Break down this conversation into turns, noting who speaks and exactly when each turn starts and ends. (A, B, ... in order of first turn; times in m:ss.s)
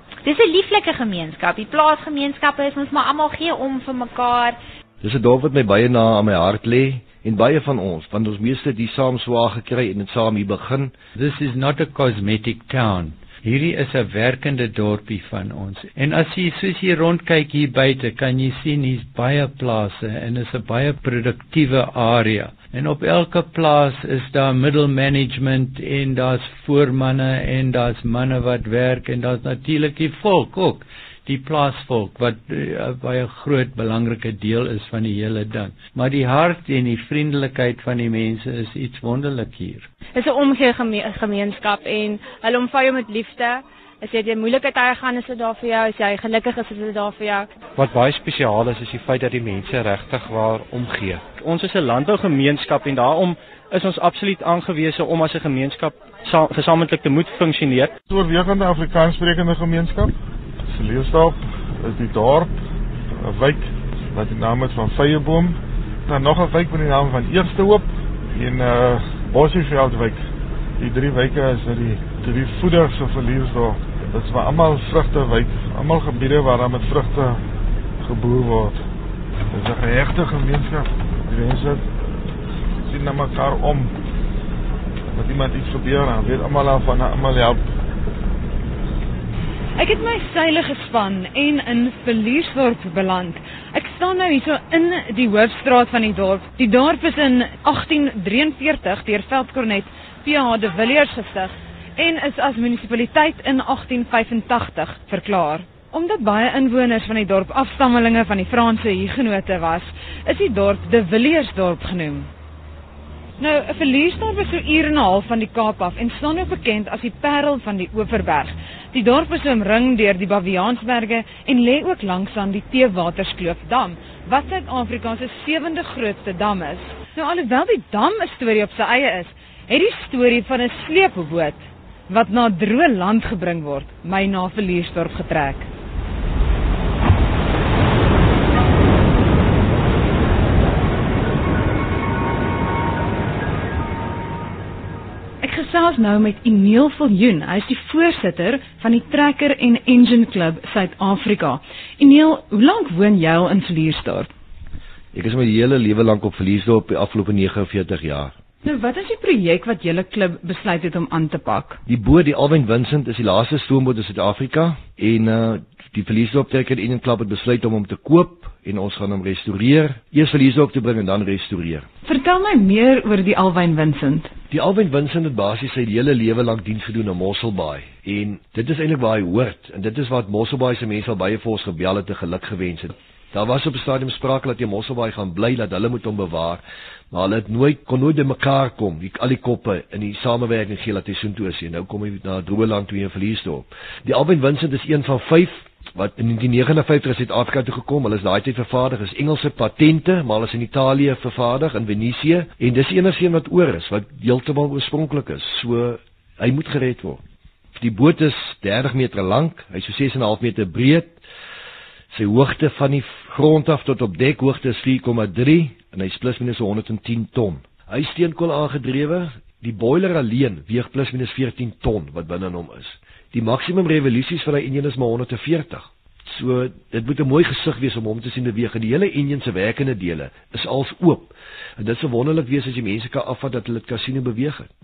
0:00.2-0:04.6 A
0:05.0-0:10.9 B
0:11.2-0:39.9 C
0:40.1-0:47.5 D
0:50.2-0:57.9 E
0:58.1-1:00.1 F
1:00.7-1:02.5 F
1:03.1-1:05.6 F
1:06.1-1:10.2 F
1:10.8-1:17.4 F
1:18.0-1:18.8 F
1:19.5-1:21.8 F
1:22.9-1:23.9 F
1:25.1-1:27.6 F
1:29.8-1:52.3 G
1:53.4-2:15.7 G
2:25.4-2:34.3 G
2:35.1-2:38.3 B
2:38.6-2:41.8 G
2:41.8-2:51.9 B
2:52.0-2:54.3 G
2:54.5-3:27.2 B
3:27.7-3:31.1 B
3:32.1-3:54.7 B